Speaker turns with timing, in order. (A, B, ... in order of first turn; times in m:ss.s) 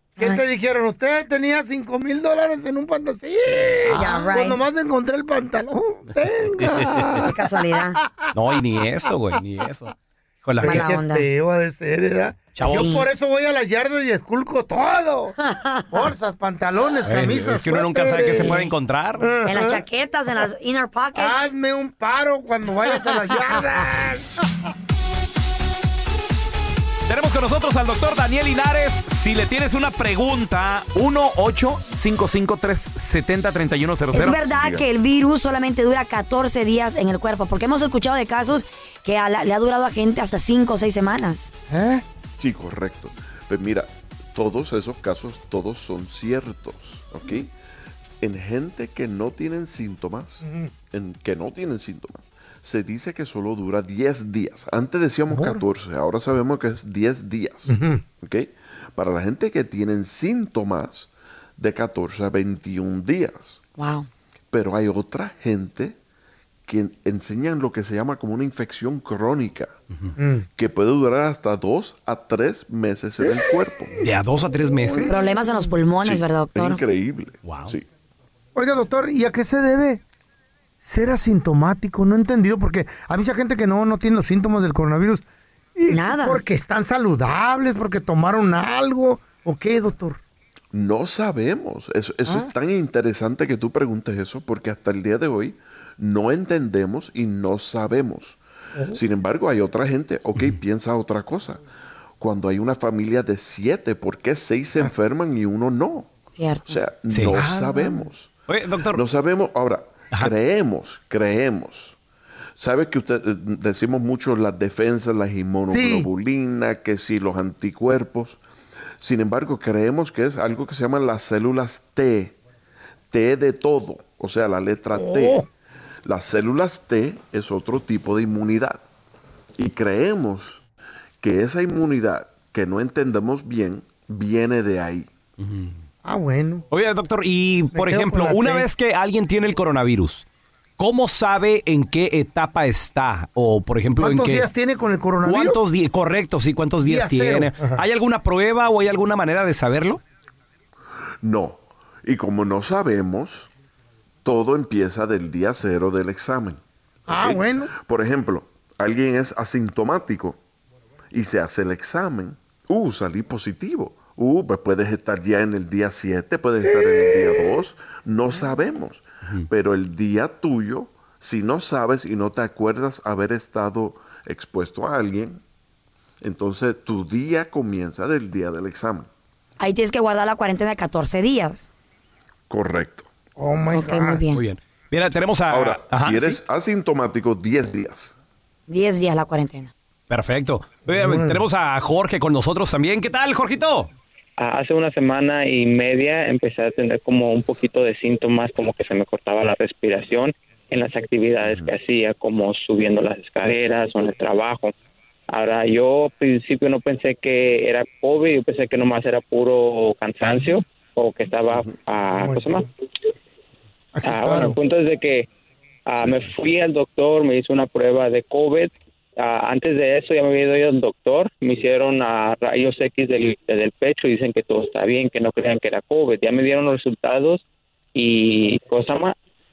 0:00.2-0:08.2 A
0:03.9-0:04.6 B
0:06.6-0:07.2 C
0:07.2-0:08.0 B
0:08.3-0:10.8 C
0:10.6-0:15.4 A
0:10.6-0:11.3 B
0:12.5-0:13.0 C
0:12.7-0:13.1 B
0:15.4-0:16.1 B
0:15.9-0:18.6 A
0:17.0-0:19.3 C
0:18.4-0:18.7 B
0:19.2-0:19.8 A
0:19.4-0:21.5 B
0:21.1-0:24.4 A
0:27.1-0:34.4 C
0:34.1-0:41.5 B
0:34.3-0:34.8 D
0:41.7-0:42.0 A
0:42.4-0:47.5 D
0:48.2-1:03.6 D
0:50.4-0:50.7 A
0:55.3-0:55.6 A
0:57.7-0:58.0 A
1:03.8-1:04.1 B
1:04.5-1:06.0 D
1:06.7-1:09.7 D
1:10.2-1:10.4 A
1:10.6-1:13.9 D
1:14.0-1:15.1 C
1:14.8-1:15.3 A
1:15.0-1:16.8 B
1:16.0-1:17.8 D
1:17.4-1:17.8 C
1:18.5-1:20.0 A
1:20.8-1:25.2 A
1:25.8-1:30.2 A
1:25.9-1:26.4 B
1:30.7-1:38.4 D
1:38.8-1:39.0 A
1:38.9-1:41.6 D
1:42.2-1:48.3 D
1:46.3-1:46.8 B
1:47.1-1:47.4 C
1:47.3-1:48.1 A
1:48.5-1:49.0 C
1:48.9-1:52.0 D
1:52.6-1:58.4 D
1:55.7-1:56.1 A
1:59.0-2:02.3 D
2:03.1-2:05.4 D
2:04.9-2:05.4 A
2:06.0-2:08.8 D
2:09.6-2:10.6 D
2:11.2-2:15.1 D
2:15.4-2:15.8 C
2:16.0-2:16.6 A
2:16.7-2:20.2 C
2:17.7-2:18.7 A
2:20.8-2:24.5 C
2:24.0-2:25.6 A
2:25.2-2:30.0 C
2:26.8-2:27.8 A
2:31.2-2:33.5 D
2:34.2-2:40.4 D
2:37.1-2:37.7 A
2:41.1-2:55.4 D
2:56.2-2:59.1 D
2:59.6-3:01.7 B
3:02.5-3:03.1 D
3:03.4-3:04.2 A
3:03.7-3:04.4 B
3:04.3-3:06.4 C
3:05.5-3:08.1 D
3:08.7-3:09.7 B
3:10.1-3:13.9 C
3:10.9-3:11.4 A
3:14.4-3:24.7 E
3:21.4-3:21.7 D
3:25.3-3:32.6 E
3:32.2-3:32.4 A
3:33.9-3:34.5 A
3:34.0-3:35.3 E
3:35.9-3:47.4 E
3:36.0-3:36.2 D
3:47.9-3:49.1 E